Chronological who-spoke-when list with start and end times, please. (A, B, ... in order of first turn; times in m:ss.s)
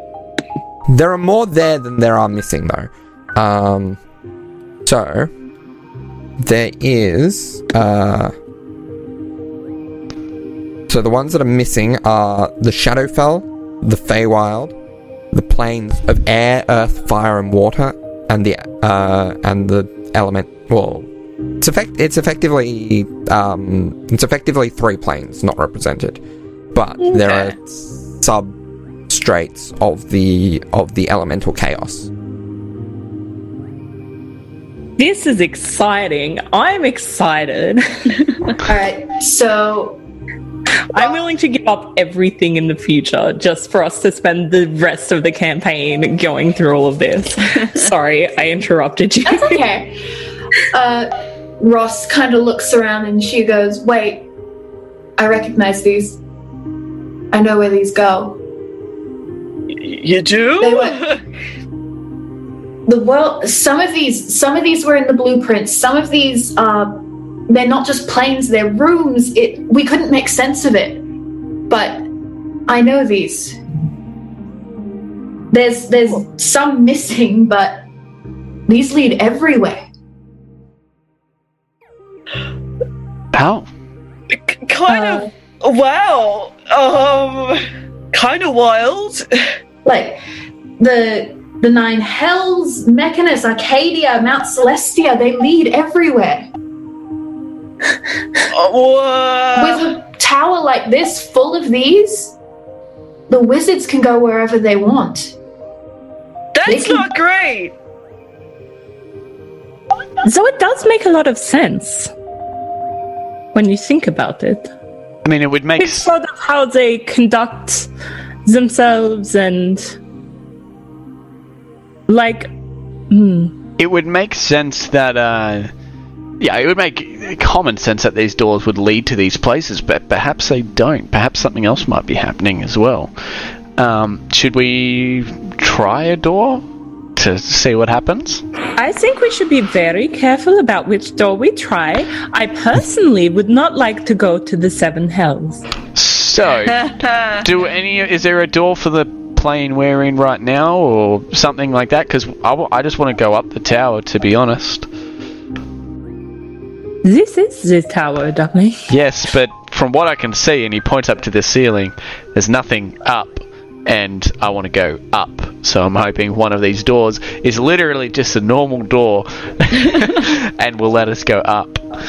0:00.9-0:04.0 A
0:04.8-0:05.3 A
0:06.4-0:08.3 A
0:10.9-0:14.7 A
0:15.3-0:26.2 A
0:26.7-0:28.5 A
0:27.0-0:27.5 B
0:29.1-0:32.1 A
0:35.0-0:38.1 C
0:38.6-0:40.0 D
0:40.9-0:49.6 C
0:49.2-0:50.0 D
0:50.7-0:54.3 D
0:55.2-0:56.2 D
0:57.3-0:58.4 D
0:59.7-1:01.2 B
1:00.6-1:01.0 D
1:02.9-1:11.0 D
1:11.7-1:12.1 D
1:12.7-1:13.6 D
1:15.5-1:17.8 D
1:18.7-1:19.8 D
1:23.3-1:23.7 E
1:24.3-1:29.5 B
1:29.8-1:30.2 D
1:30.8-1:36.5 D
1:38.5-1:39.9 B
1:39.6-1:42.3 D
1:43.3-1:45.3 D
1:46.5-1:47.7 B
1:46.7-1:47.1 D
1:50.2-1:52.1 C
1:53.5-1:54.7 C
1:55.2-1:56.1 E
1:55.8-1:57.9 C
1:58.4-2:00.0 C
2:02.1-2:02.5 C
2:03.1-2:03.5 C
2:03.8-2:05.7 E
2:06.4-2:13.1 E
2:13.8-2:16.6 E
2:17.2-2:18.4 E
2:18.8-2:25.6 C
2:25.9-2:34.9 E
2:26.7-2:27.4 B
2:37.0-2:38.9 C
2:38.9-2:51.8 E